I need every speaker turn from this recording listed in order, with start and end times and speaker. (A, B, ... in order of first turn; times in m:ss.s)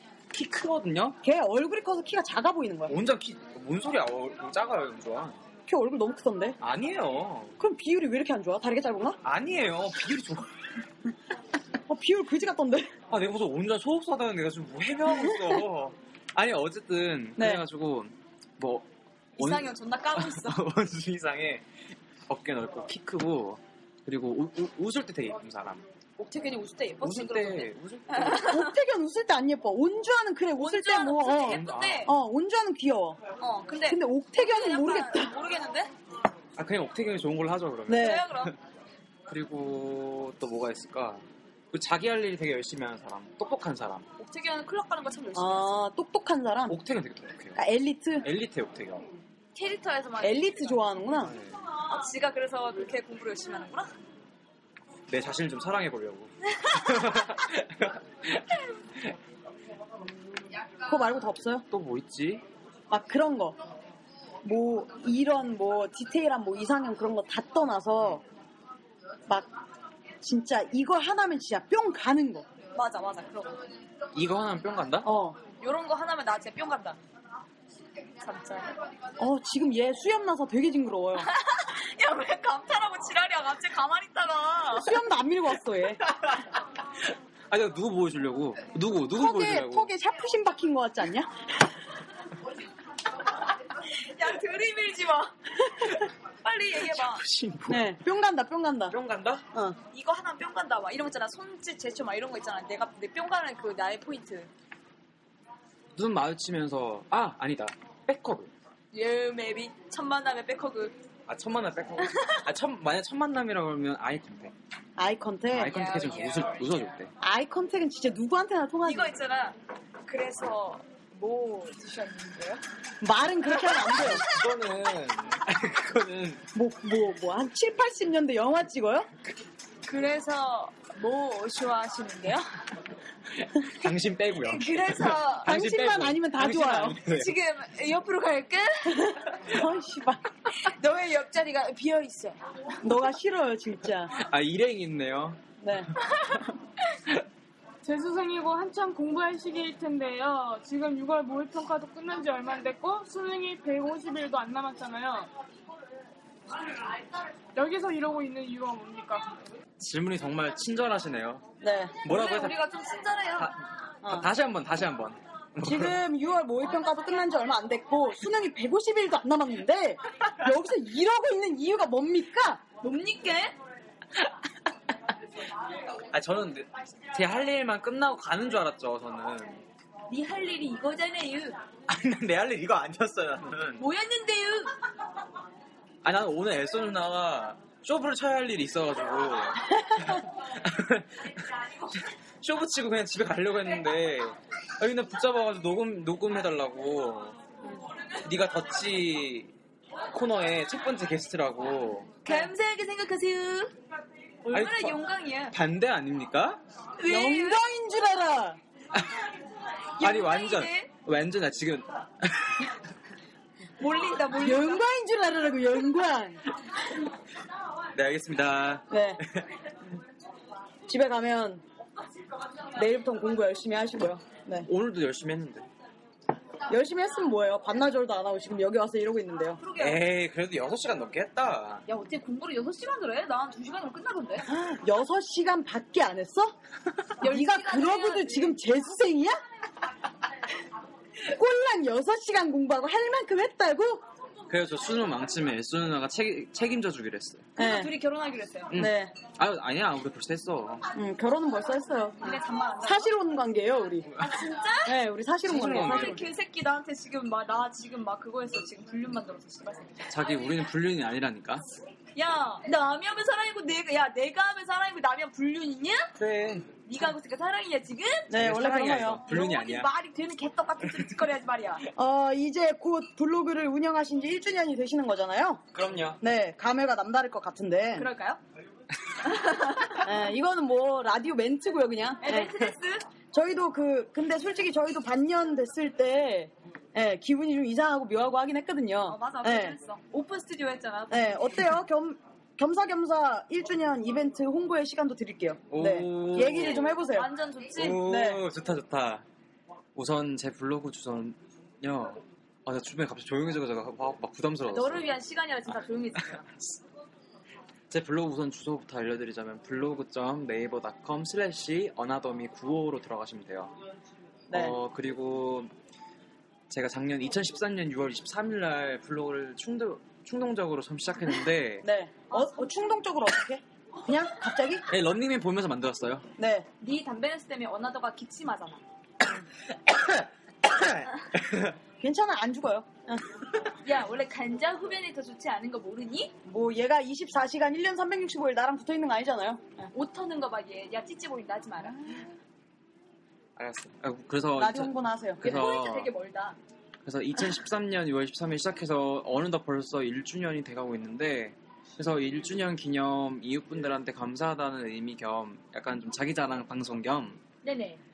0:00.3-0:01.2 A
0:01.2-0:03.0 B
0:02.9-0:05.4 A
0:05.7-0:06.6 B
0:06.6-0:07.5 A
0:07.6-0:09.2 B
0:09.2-0:10.5 A
0:11.9-0:12.9 B
0:13.1-0:18.9 A
0:15.1-0:15.4 B
0:17.4-0:17.6 B
0:19.4-0:20.6 C
0:19.4-0:21.6 A
0:22.3-0:25.8 A
0:26.2-0:28.7 C
0:27.0-0:28.6 A
0:28.3-0:33.2 B
0:30.6-0:32.1 C
0:31.4-0:32.1 A
0:33.4-0:35.9 C
0:33.9-0:35.3 B
0:36.6-0:38.5 A
0:37.9-0:38.3 B
0:37.9-0:38.5 C
0:39.3-0:44.0 A
0:44.2-0:45.8 C
0:45.3-0:46.8 B
0:46.7-0:47.6 A
0:47.6-0:48.3 B
0:48.2-0:49.0 A
0:49.5-0:50.9 C
0:50.2-0:51.3 B
0:51.1-0:51.6 A
0:51.8-0:53.9 C
0:55.1-0:59.1 A
1:00.8-1:01.6 B
1:01.7-1:02.4 A
1:02.9-1:03.6 B
1:04.4-1:08.2 B
1:10.2-1:12.4 B
1:12.7-1:13.6 C
1:14.1-1:15.1 A
1:15.0-1:15.4 B
1:15.6-1:17.0 C
1:18.2-1:18.7 C
1:19.2-1:21.3 B
1:21.2-1:25.0 C
1:24.7-1:26.0 B
1:27.5-1:29.9 A
1:29.1-1:31.3 B
1:33.9-1:35.3 C
1:36.4-1:37.2 C
1:36.8-1:37.9 A
1:37.7-1:39.0 B
1:38.9-1:39.4 A
1:39.5-1:39.8 B
1:39.9-1:44.5 C
1:46.0-1:48.5 A
1:48.9-1:51.0 C
1:51.3-1:54.5 A
1:52.0-1:52.4 C
1:55.0-1:55.8 B
1:55.5-1:57.1 A
1:55.7-1:56.9 C
1:57.2-1:59.1 B
1:58.8-2:02.6 C
2:03.0-2:04.2 B
2:04.0-2:06.4 A
2:06.5-2:09.1 B
2:09.8-2:12.4 C
2:13.4-2:17.3 A
2:14.4-2:15.5 C
2:15.4-2:17.0 B
2:17.0-2:19.2 C
2:19.0-2:20.2 B
2:20.6-2:22.4 C
2:22.8-2:24.2 B
2:24.1-2:25.4 A
2:25.6-2:25.9 B
2:27.8-2:35.3 D
2:37.5-2:39.3 D
2:39.8-2:41.4 A
2:41.6-2:42.0 B
2:42.0-2:42.6 A
2:42.1-2:43.5 C
2:43.4-2:45.9 A
2:44.0-2:44.3 B
2:45.6-2:52.6 B
2:52.8-2:53.6 C
2:56.1-2:59.6 A
3:00.1-3:01.6 C
3:01.9-3:03.8 A
3:03.8-3:04.7 C
3:06.0-3:17.4 A
3:18.2-3:19.5 A
3:20.1-3:22.2 A
3:22.2-3:23.7 C
3:24.4-3:25.5 C
3:24.5-3:26.6 A
3:27.0-3:27.6 C
3:27.0-3:28.6 B
3:30.0-3:30.9 C
3:30.0-3:32.7 A
3:33.8-3:34.8 C
3:34.3-3:36.4 B
3:37.9-3:39.5 A
3:38.9-3:39.2 B
3:40.9-3:41.6 B
3:42.7-3:44.7 B
3:44.6-3:45.6 A
3:46.7-3:49.6 B
3:49.6-3:50.0 C
3:49.8-3:51.8 A
3:51.9-3:54.5 C
3:54.5-3:56.5 B
3:57.2-3:58.6 C
3:57.2-3:59.4 B
4:01.2-4:04.0 B
4:04.5-4:07.5 A
4:07.6-4:07.9 B
4:07.6-4:08.7 C
4:08.7-4:10.8 A
4:08.7-4:09.1 B
4:10.9-4:14.1 B
4:12.2-4:13.1 C
4:14.2-4:15.0 C
4:14.8-4:16.2 B
4:15.5-4:16.3 A
4:15.7-4:20.1 C
4:20.1-4:21.6 A
4:22.2-4:26.1 C
4:26.2-4:26.7 A
4:26.8-4:28.3 C
4:28.3-4:29.3 B
4:28.3-4:29.9 A
4:29.2-4:31.8 C
4:32.0-4:35.6 B
4:35.7-4:36.2 A
4:36.2-4:38.1 B
4:38.0-4:38.4 C
4:39.2-4:40.1 C
4:40.0-4:42.5 B
4:42.2-4:43.0 C
4:43.3-4:49.8 B
4:49.1-4:51.6 C
4:51.1-4:57.3 B
4:55.7-4:57.0 A
4:56.9-4:58.1 C
4:57.8-4:59.2 A
4:58.0-4:58.4 B
4:59.9-5:05.1 A
5:04.7-5:06.4 C
5:07.9-5:13.7 A
5:14.5-5:14.8 B
5:14.5-5:15.7 A
5:16.7-5:21.8 A
5:21.8-5:24.8 B
5:22.3-5:22.7 C
5:24.9-5:26.2 A
5:26.4-5:26.7 B
5:26.8-5:28.8 C
5:29.9-5:30.2 A
5:30.7-5:31.7 A
5:32.0-5:33.2 B
5:33.8-5:36.3 C
5:36.4-5:39.9 B
5:39.9-5:42.0 C
5:43.6-5:46.1 A
5:44.6-5:45.5 B
5:45.4-5:46.6 C
5:47.0-5:57.4 A
5:57.6-5:58.0 C